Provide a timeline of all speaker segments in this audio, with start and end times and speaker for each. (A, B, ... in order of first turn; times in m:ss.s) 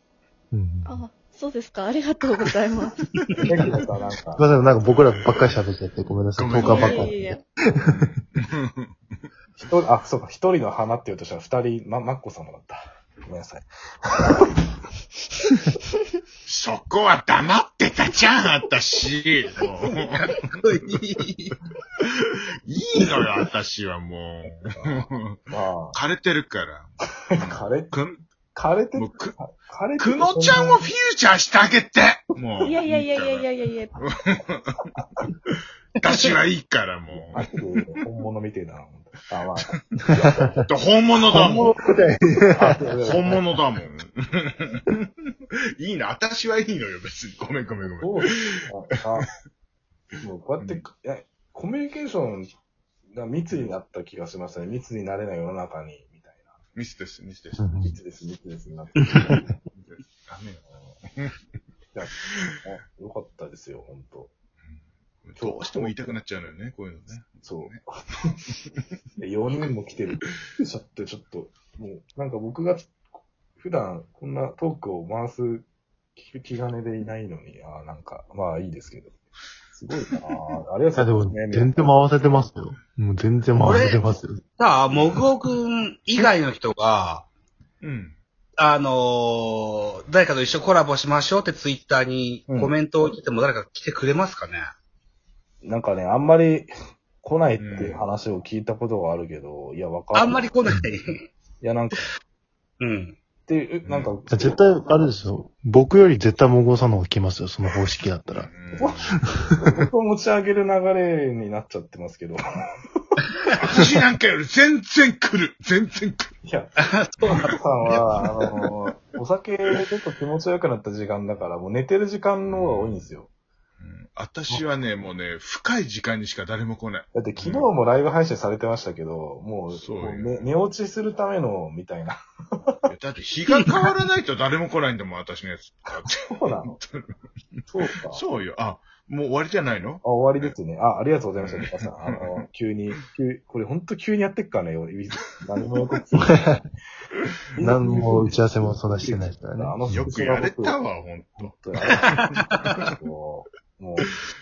0:00.5-0:01.0 A
0:00.8-0:03.7 B
0:03.5-0:04.4 C
0:04.4-0:07.1 A
0:04.9-0:05.5 D
0:06.4-0:07.2 D
0:06.5-0:07.4 B
0:07.9-0:08.9 D
0:09.6-0:14.6 C
0:16.5-0:20.4 D
0:19.9-0:21.6 E
0:22.0-0:25.4 D
0:25.5-0:26.0 C
0:25.9-0:28.2 D
0:27.4-0:28.0 C
0:28.5-0:30.9 C
0:28.9-0:29.4 D
0:30.0-0:37.4 D
0:32.6-0:34.0 B
0:36.1-0:36.3 E
0:37.1-0:40.5 C
0:40.1-0:40.6 A
0:40.7-0:41.8 D
0:41.3-0:43.4 A
0:42.5-0:43.4 C
0:43.0-0:45.2 D
0:45.8-0:49.3 D
0:48.0-0:49.3 C
0:50.2-0:52.5 C
0:53.1-0:56.5 C
0:56.8-0:57.9 D
0:57.6-0:57.9 A
0:57.8-0:59.4 C
0:59.1-0:59.6 A
0:59.8-1:01.4 D
1:01.9-1:04.3 C
1:02.2-1:02.6 D
1:05.2-1:07.8 D
1:05.4-1:06.2 C
1:07.4-1:07.8 C
1:08.4-1:08.9 D
1:09.2-1:12.9 C
1:13.6-1:19.2 C
1:19.7-1:21.9 C
1:21.0-1:24.4 A
1:23.6-1:24.0 E
1:24.6-1:27.3 E
1:27.8-1:28.2 D
1:28.6-1:34.7 E
1:32.5-1:32.8 C
1:35.6-1:40.5 C
1:37.6-1:38.0 D
1:40.1-1:41.3 E
1:41.6-1:42.1 C
1:42.8-1:43.2 E
1:43.5-1:44.6 C
1:43.8-1:44.1 D
1:44.3-1:48.5 A
1:48.3-1:49.2 D
1:48.8-1:52.4 C
1:53.6-1:56.3 D
1:56.4-2:03.3 C
1:56.8-1:58.3 E
2:02.5-2:03.1 D
2:03.8-2:07.7 D
2:07.1-2:12.8 C
2:09.7-2:10.5 D
2:12.9-2:20.6 D
2:16.2-2:16.8 C
2:17.7-2:18.2 C
2:20.0-2:26.6 C
2:21.4-2:22.9 D
2:27.5-2:30.8 C
2:27.6-2:30.1 A
2:29.9-2:32.9 D
2:31.4-2:32.2 C
2:32.3-2:32.7 E
2:32.8-2:34.1 C